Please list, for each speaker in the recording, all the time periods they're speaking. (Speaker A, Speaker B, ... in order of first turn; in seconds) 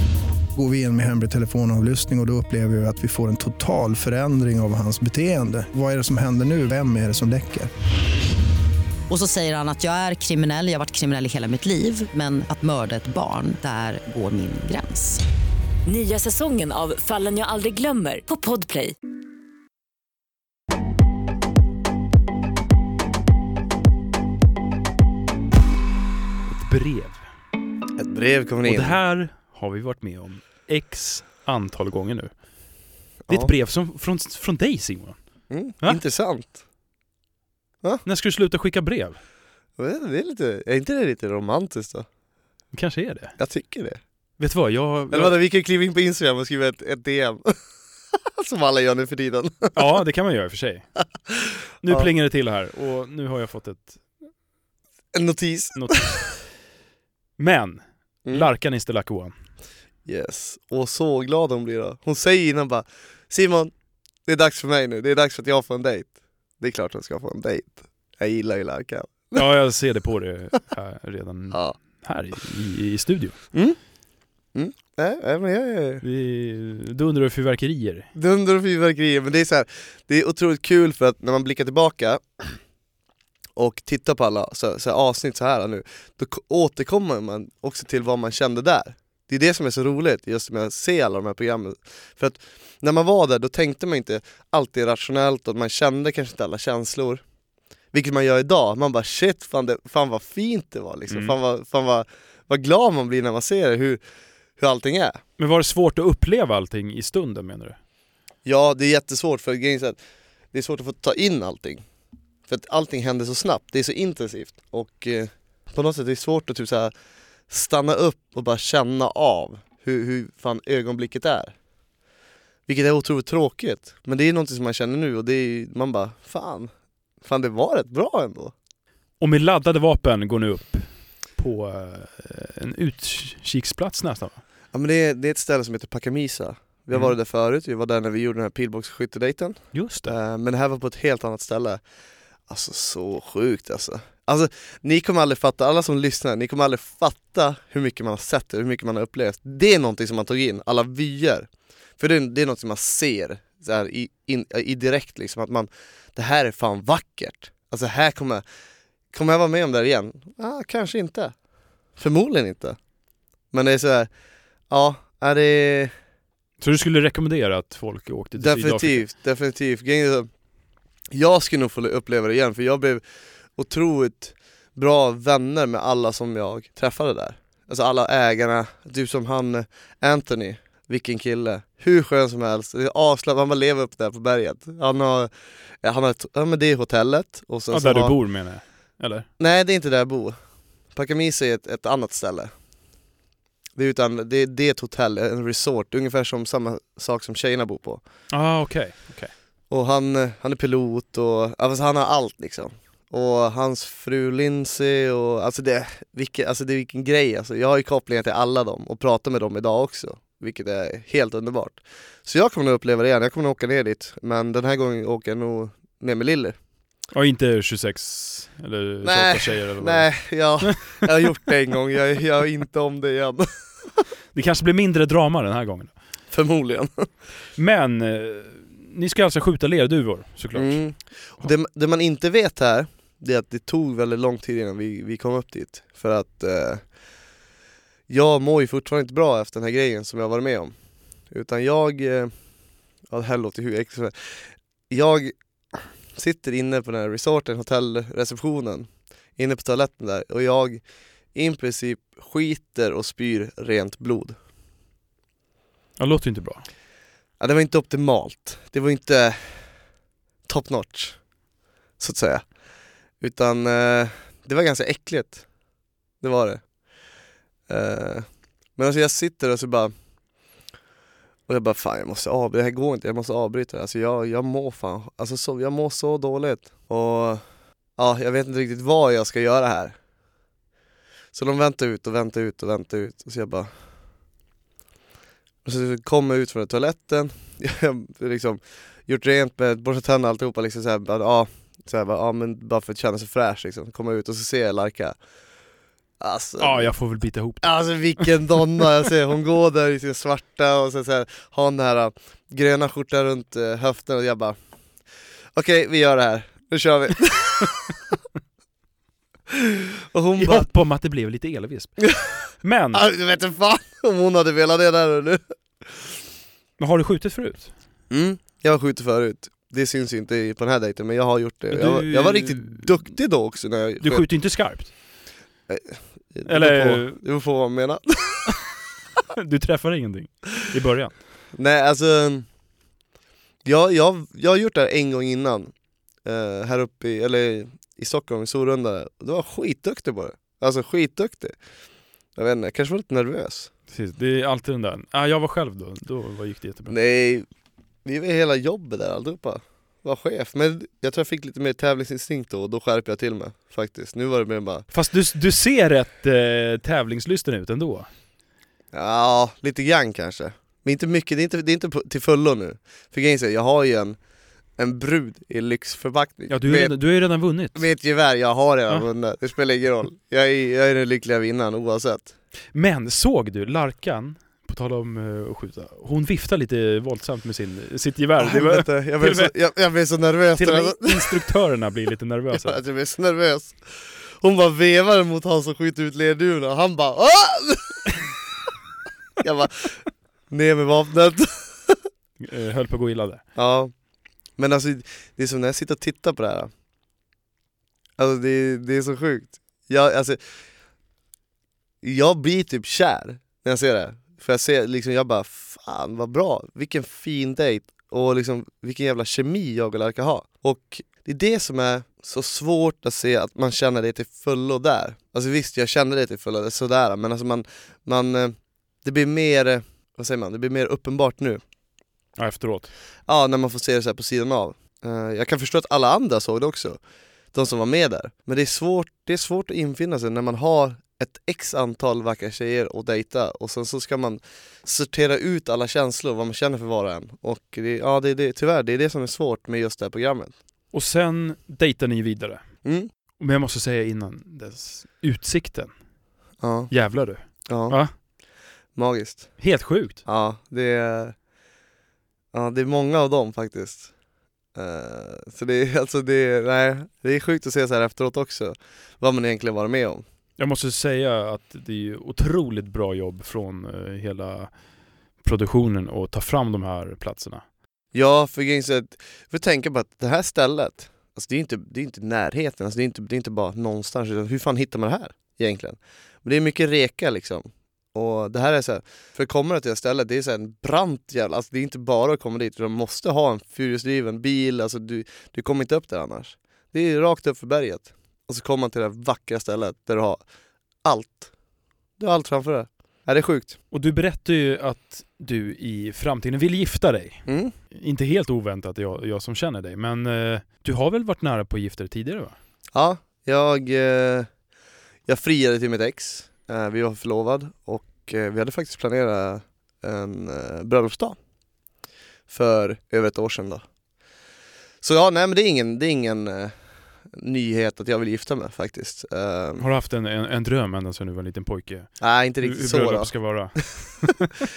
Speaker A: 0.5-7.7
Speaker B: 9.1-15.2
Speaker C: 15.8-18.9
Speaker D: 26.4-27.3, 28.6-32.4, 33.3-36.0, 38.0-39.2, 42.7-43.4, 44.4-45.3, 49.7-50.9, 51.8-54.0, 55.8-56.4, 57.4-59.3, 69.3-73.4, 76.0-78.1, 101.1-101.3, 105.4-107.8, 129.2-134.4, 139.7-140.1, 166.6-169.0, 187.7-189.3, 198.3-199.3, 217.1-221.0, 224.3-225.9, 227.6-231.5, 256.0-256.6, 296.6-298.3, 310.4-313.0, 316.8-317.7, 321.7-323.1, 324.0-324.9, 326.4-327.2, 329.4-331.2, 343.9-346.9, 354.9-358.1, 366.5-367.8, 372.7-379.5, 380.6-382.8, 392.4-393.4, 422.4-422.9, 440.9-442.6, 443.4-445.9, 446.9-448.1, 449.6-450.2, 460.6-464.7, 465.4-467.6, 493.9-502.6, 519.8-524.4
Speaker E: 28.0-29.0, 35.5-36.6, 39.8-42.1, 43.4-44.0, 45.1-47.6, 48.4-49.8, 55.1-56.0, 60.0-63.7, 64.2-69.4, 71.5-71.8, 73.5-73.8, 74.5-76.0, 78.1-82.6, 83.5-97.2, 97.9-104.0, 104.6-105.2, 108.4-110.0, 110.5-111.8, 112.5-116.9, 117.5-121.5, 122.7-128.5, 134.7-141.8, 142.5-158.4, 159.1-161.3, 161.9-162.8, 163.5-164.1, 164.7-165.9, 168.4-170.3, 171.1-173.0, 173.5-188.1, 189.4-190.4, 190.9-192.5, 193.8-198.0, 199.7-216.6, 219.0-223.9, 226.3-227.1, 230.5-236.9, 238.1-240.7, 241.2-242.3, 243.1-250.8, 251.3-254.4, 257.4-259.7, 260.4-261.2, 262.0-262.4, 263.2-265.5, 266.2-266.6, 267.7-269.9, 271.5-277.4, 278.0-279.9, 281.3-283.7, 285.6-295.1, 296.2-296.9, 297.6-304.6, 305.5-307.8, 309.5-310.7, 312.9-316.1, 318.1-324.2, 325.7-328.5, 331.5-332.5, 333.6-335.7, 336.2-341.5, 342.4-343.7, 346.9-347.5, 348.0-354.9, 358.9-364.2, 364.8-366.9, 367.7-372.3, 378.4-381.3, 382.5-388.3, 389.4-392.0, 393.6-393.9, 394.6-396.7, 398.2-400.4, 402.0-421.6, 423.3-427.0, 427.5-440.5, 446.6-446.9, 447.7-448.0, 448.9-449.6, 450.2-451.4, 452.5-454.1, 454.7-460.2, 468.1-490.4, 491.0-491.5, 492.2-493.8, 497.5-497.7, 502.9-504.5, 505.3-511.4, 512.5-513.8, 515.0-516.7, 517.3-519.8, 522.2-523.3